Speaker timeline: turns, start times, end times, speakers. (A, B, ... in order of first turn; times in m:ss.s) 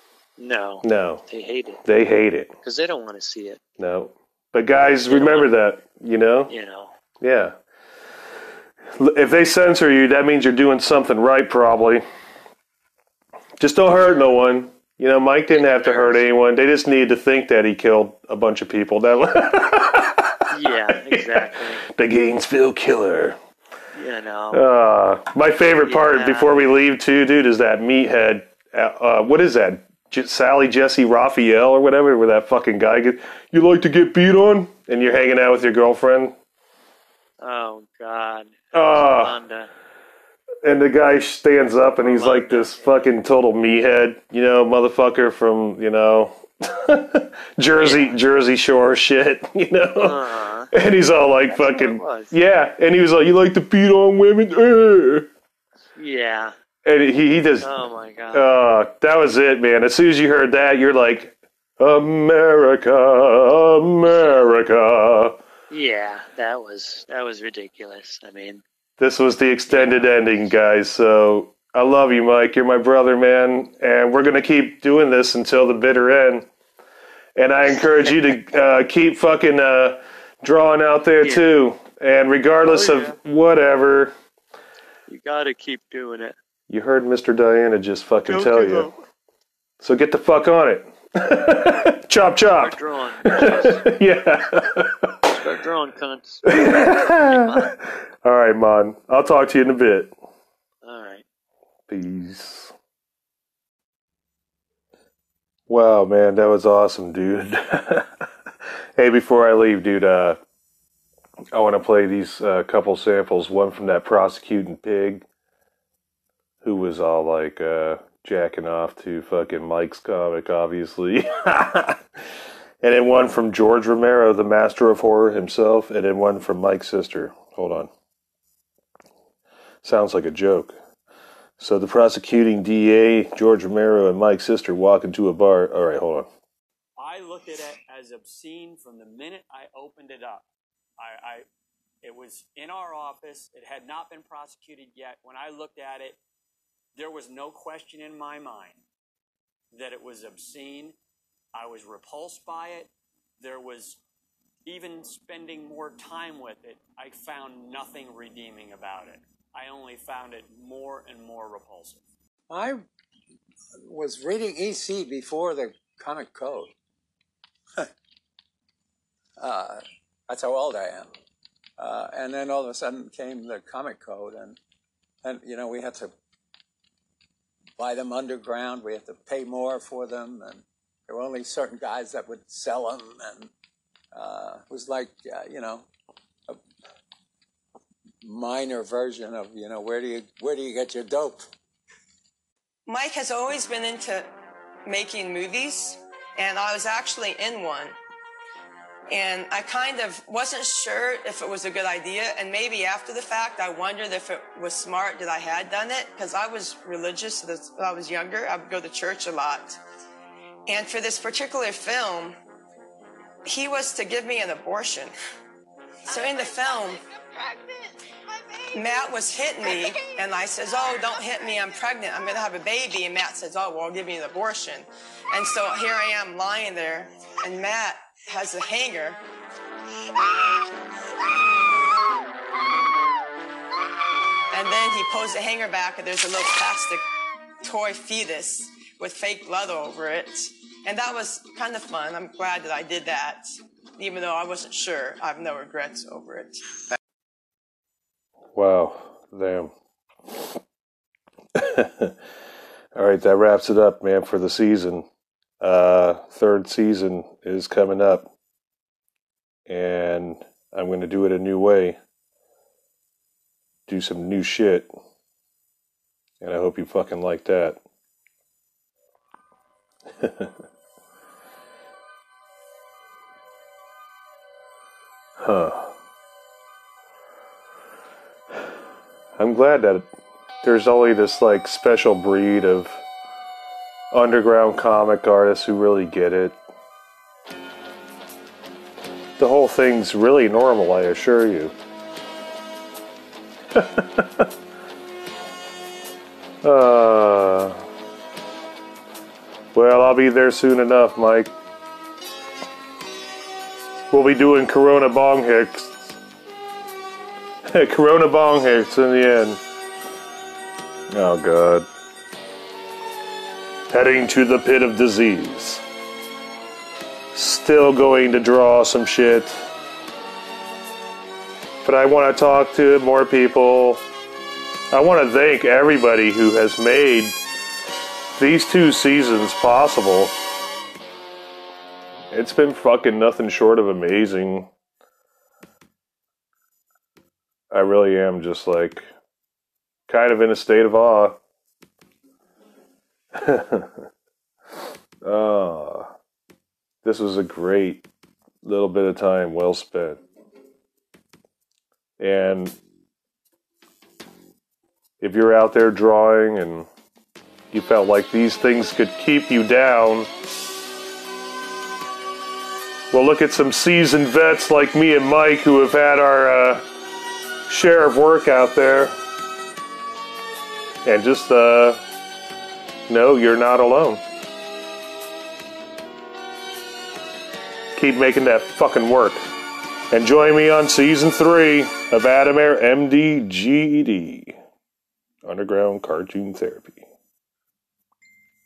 0:00.4-0:01.8 A
0:00.8-0:01.2 B
0:01.8-0:02.5 B
0:02.6-0:03.6 A
0:03.8-0:06.5 B
0:05.1-0:05.5 A
0:06.5-0:06.9 A
0:07.2-0:07.5 B
0:09.0-0:12.0 B
0:13.6-0:20.4 B
0:15.5-0:16.2 A
0:20.5-0:21.8 A
0:21.0-0:23.4 B
0:23.9-0:24.6 A
0:24.5-0:36.3 B
0:25.8-0:26.6 A
0:37.4-0:39.7 A
0:38.7-0:39.4 B
0:40.6-0:50.2 B
0:42.0-0:43.1 A
0:47.7-0:48.2 A
0:50.0-0:50.7 A
0:50.7-0:55.3 B
0:51.5-0:52.3 A
0:56.0-0:56.5 A
0:56.8-0:57.7 B
0:57.6-0:58.4 A
0:58.3-1:05.4 B
1:04.0-1:04.4 A
1:05.7-1:08.6 A
1:09.0-1:16.5 B
1:09.7-1:10.1 A
1:17.4-1:24.1 B
1:17.6-1:18.1 A
1:21.2-1:21.5 A
1:22.6-1:23.2 A
1:25.1-1:26.3 A
1:26.7-1:28.9 B
1:28.3-1:29.0 A
1:29.8-1:35.3 B
1:32.6-1:33.8 A
1:35.3-1:37.7 A
1:36.4-1:40.1 B
1:40.8-1:41.2 A
1:41.9-1:42.7 B
1:45.7-1:48.2 B
1:49.0-1:50.4 B
1:51.5-1:55.2 B
1:56.6-2:02.0 B
2:02.8-2:07.9 B
2:09.8-2:10.8 B
2:11.6-2:16.3 B
2:17.0-2:20.5 C
2:21.0-2:21.4 C
2:22.0-2:26.2 C
2:26.9-2:28.8 C
2:29.7-2:30.9 C
2:31.5-2:34.0 C
2:34.6-2:42.0 C
2:42.5-2:42.8 D
2:43.8-2:46.7 D
2:49.4-2:51.1 D
2:51.8-2:54.6 D
2:55.2-2:56.1 D
2:57.8-3:03.5 D
3:04.1-3:05.9 D
3:08.2-3:11.5 D
3:12.9-3:14.3 E
3:14.8-3:17.9 E
3:19.1-3:29.8 E
3:30.7-3:32.4 E
3:33.4-3:35.1 E
3:36.1-3:37.0 E
3:38.7-3:49.2 E
3:54.5-3:57.0 E
3:57.6-4:03.4 E
4:04.0-4:06.6 E
4:08.5-4:09.7 B
4:10.3-4:10.6 B
4:11.5-4:12.2 B
4:12.9-4:15.1 B
4:15.6-4:18.3 B
4:19.7-4:22.0 B
4:23.9-4:24.9 B
4:26.4-4:27.8 B
4:30.2-4:30.5 B
4:35.4-4:35.9 B
4:39.4-4:40.1 B
4:40.6-4:43.0 B
4:44.1-4:46.6 B
4:49.4-4:51.7 B
4:53.7-4:54.5 B
4:56.6-4:57.8 B
4:59.7-5:01.5 B
5:04.1-5:06.1 B
5:07.7-5:09.6 B
5:11.1-5:11.9 B
5:13.9-5:15.8 B
5:17.3-5:19.6 B
5:21.8-5:24.0 B
5:24.9-5:27.4 B
5:28.4-5:30.3 B
5:32.3-5:34.7 B
5:37.7-5:39.1 B
5:40.1-5:41.4 B
5:43.3-5:44.0 B
5:45.2-5:46.1 B
5:47.0-5:48.0 B
5:48.6-5:50.2 B
5:52.2-5:52.7 B
5:55.2-5:56.9 B
5:57.7-6:00.3 B
6:03.1-6:06.8 B
6:07.7-6:09.1 B
6:11.0-6:12.0 B
6:13.1-6:14.2 B
6:18.0-6:19.5 B
6:20.1-6:24.5 B
6:25.4-6:27.0 B